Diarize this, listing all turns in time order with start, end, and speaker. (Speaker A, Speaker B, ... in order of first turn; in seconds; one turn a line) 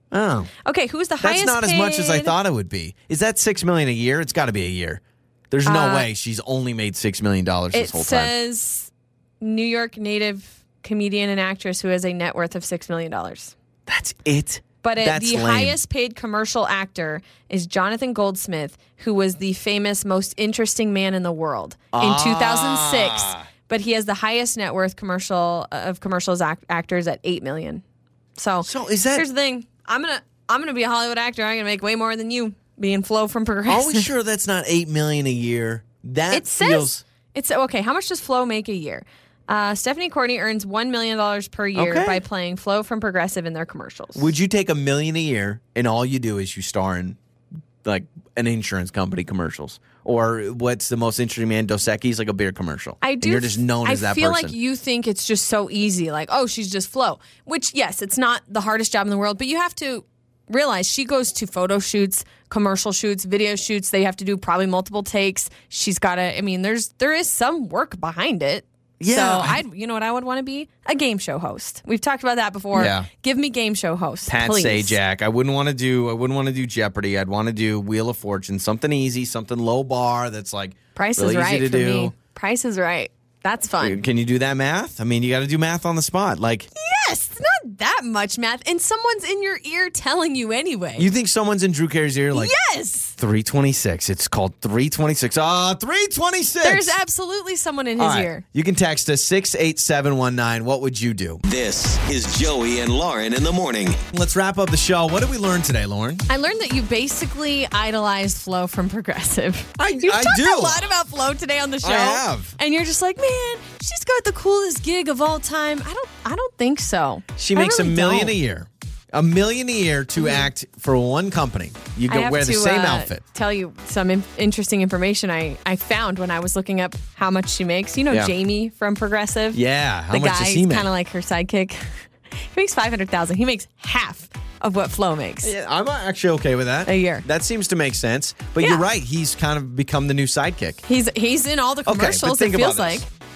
Speaker A: 0.1-0.5
Speaker B: 0.7-2.4
Speaker A: 1.2-8.3
Speaker B: 5.7-6.1
Speaker B: 7.7-8.9
Speaker B: 9.4-13.6
Speaker A: 13.9-15.8
Speaker B: 14.8-27.8
Speaker A: 21.9-23.5
Speaker B: 28.4-34.1
Speaker A: 28.6-29.3
Speaker A: 33.7-37.0
Speaker B: 36.3-44.3
Speaker A: 41.8-42.2
Speaker A: 44.1-47.2
Speaker A: 47.9-54.5
Speaker B: 53.0-75.0
Speaker A: 69.0-69.6
Speaker A: 72.7-73.1
Speaker A: 74.3-82.1
Speaker B: 81.0-84.0
Speaker A: 83.8-86.7
Speaker B: 86.8-91.1
Speaker A: 91.0-92.5
Speaker B: 92.3-93.2
Speaker A: 93.2-97.0
Speaker B: 96.6-98.4
Speaker A: 98.0-101.4
Speaker C: 101.5-104.0
Speaker A: 104.1-106.2
Speaker B: 106.3-118.3
Speaker A: 109.8-110.8
Speaker A: 111.8-112.6
Speaker A: 117.4-123.2
Speaker B: 120.2-120.5
Speaker B: 122.1-129.6
Speaker A: 129.5-130.9
Speaker B: 130.1-131.9
Speaker B: 132.4-135.5
Speaker A: 135.4-140.8
Speaker B: 136.9-137.2
Speaker B: 138.6-138.8
Speaker B: 140.9-143.1
Speaker A: 141.9-143.1